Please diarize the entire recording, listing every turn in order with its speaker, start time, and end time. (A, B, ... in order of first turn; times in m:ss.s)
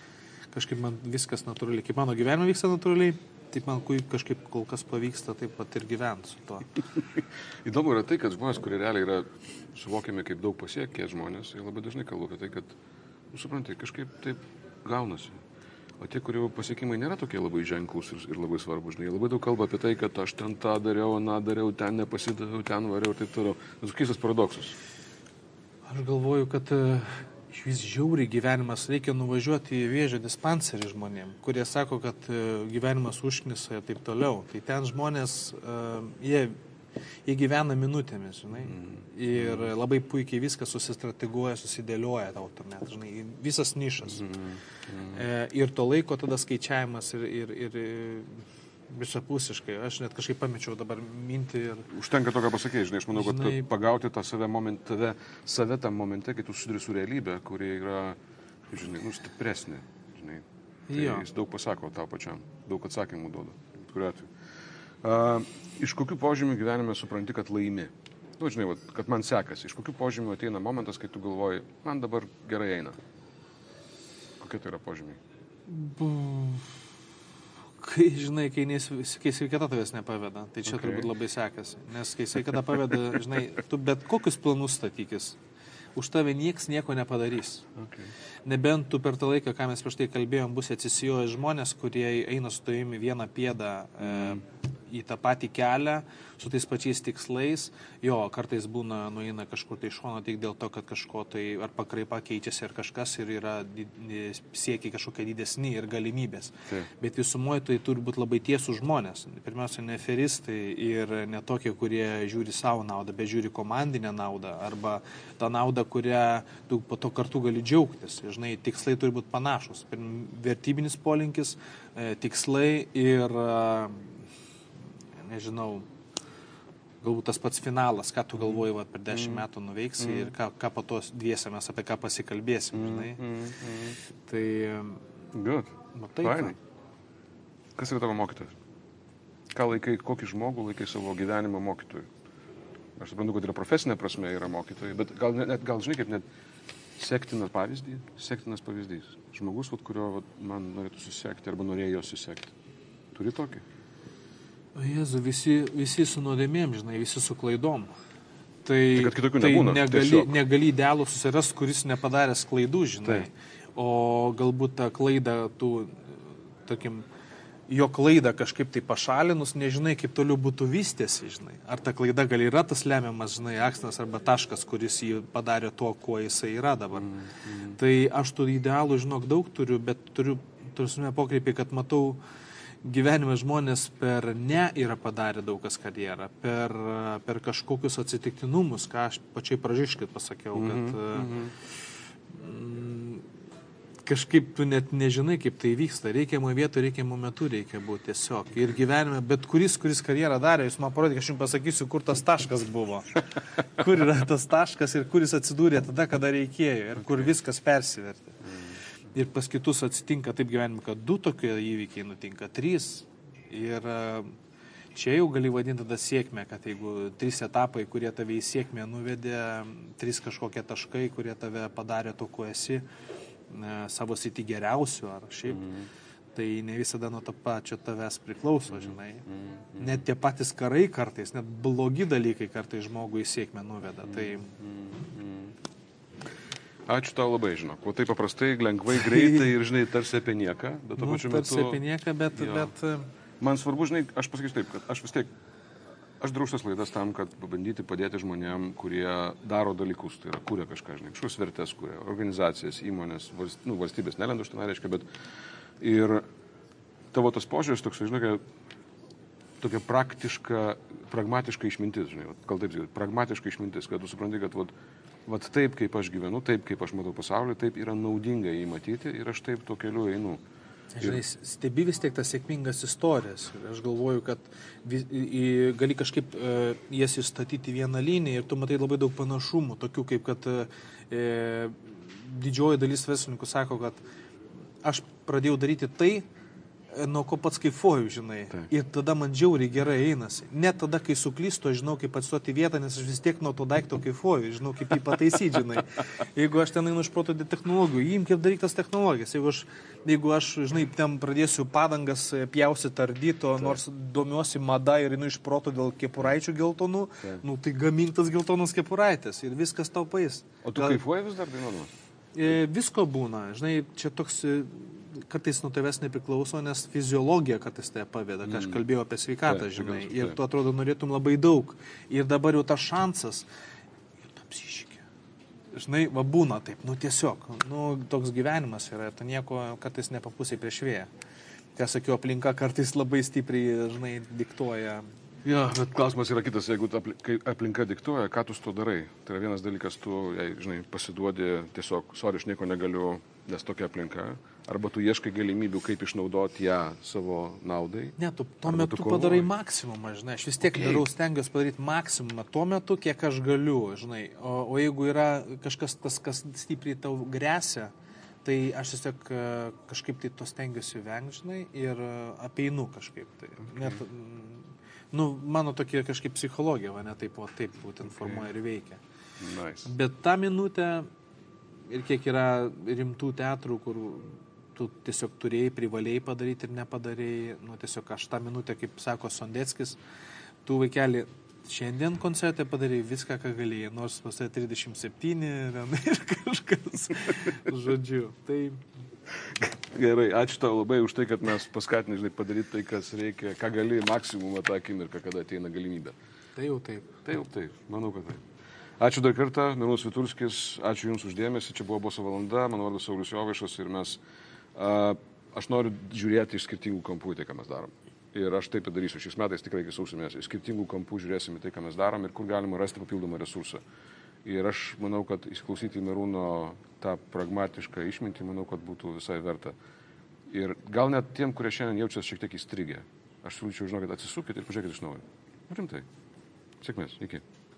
0:00.5-0:06.8 A
0:07.2-0:12.8 B
0:13.3-0:15.4 B
0:16.0-0:24.8 B
0:25.9-0:36.6 A
0:37.3-0:44.3 A
0:38.7-0:39.7 B
0:44.1-0:45.2 B
0:45.1-0:51.9 A
0:51.9-0:58.2 B
0:53.1-0:53.7 A
0:58.7-1:04.3 B
1:00.9-1:01.3 A
1:05.0-1:13.0 B
1:14.4-1:15.2 B
1:15.7-1:16.8 A
1:17.8-1:25.4 A
1:20.7-1:21.1 B
1:26.0-1:27.7 A
1:27.8-1:28.1 B
1:28.5-2:04.3 A
1:34.1-1:34.4 B
2:05.2-2:05.9 A
2:07.0-2:13.2 A
2:09.1-2:09.4 B
2:10.0-2:10.3 B
2:12.7-2:14.0 B
2:14.3-2:15.0 A
2:15.3-2:16.6 B
2:16.0-2:16.6 A
2:17.8-2:18.5 B
2:19.5-2:22.1 B
2:23.0-2:26.2 B
2:27.0-2:32.5 B
2:33.1-2:33.6 B
2:34.8-2:37.9 A
2:38.6-2:47.0 A
2:38.9-2:40.4 B
2:47.7-2:57.1 A
2:57.0-2:57.8 B
2:57.7-3:02.2 A
3:02.8-3:11.3 A
3:10.6-3:11.5 B
3:12.3-3:13.3 A
3:14.1-3:28.4 A
3:28.5-3:28.8 B
3:29.1-3:34.3 A
3:34.9-3:42.8 A
3:43.5-3:45.7 A
3:45.5-3:45.9 B
3:46.4-3:54.5 A
3:48.8-3:50.0 B
3:54.1-3:55.5 B
3:56.9-4:01.8 B
3:59.0-3:59.5 A
4:01.0-4:03.1 A
4:02.3-4:02.7 B
4:03.4-4:05.3 B
4:06.2-4:15.0 B
4:15.8-4:16.2 B
4:17.1-4:18.4 B
4:19.6-4:24.7 B
4:25.3-4:30.4 B
4:30.9-4:44.0 A
4:44.8-4:46.3 A
4:46.9-5:11.0 A
5:10.6-5:11.9 B
5:12.4-5:23.5 A
5:18.4-5:18.8 B
5:19.5-5:20.4 B
5:24.2-5:25.0 A
5:25.7-5:31.1 A
5:31.8-5:35.1 A
5:35.4-5:49.5 B
5:48.2-5:57.9 A
5:50.6-5:51.1 B
5:58.4-6:09.0 A
6:03.8-6:04.0 B
6:08.1-6:08.5 B
6:09.4-6:09.9 B
6:09.8-6:11.1 A
6:11.9-6:20.0 A
6:20.6-6:28.8 A
6:29.4-6:36.2 B
6:36.6-6:37.2 A
6:37.2-6:38.5 B
6:39.0-6:44.2 B
6:44.8-6:53.8 B
6:54.4-6:59.8 B
7:00.5-7:06.1 B
7:06.8-7:07.4 B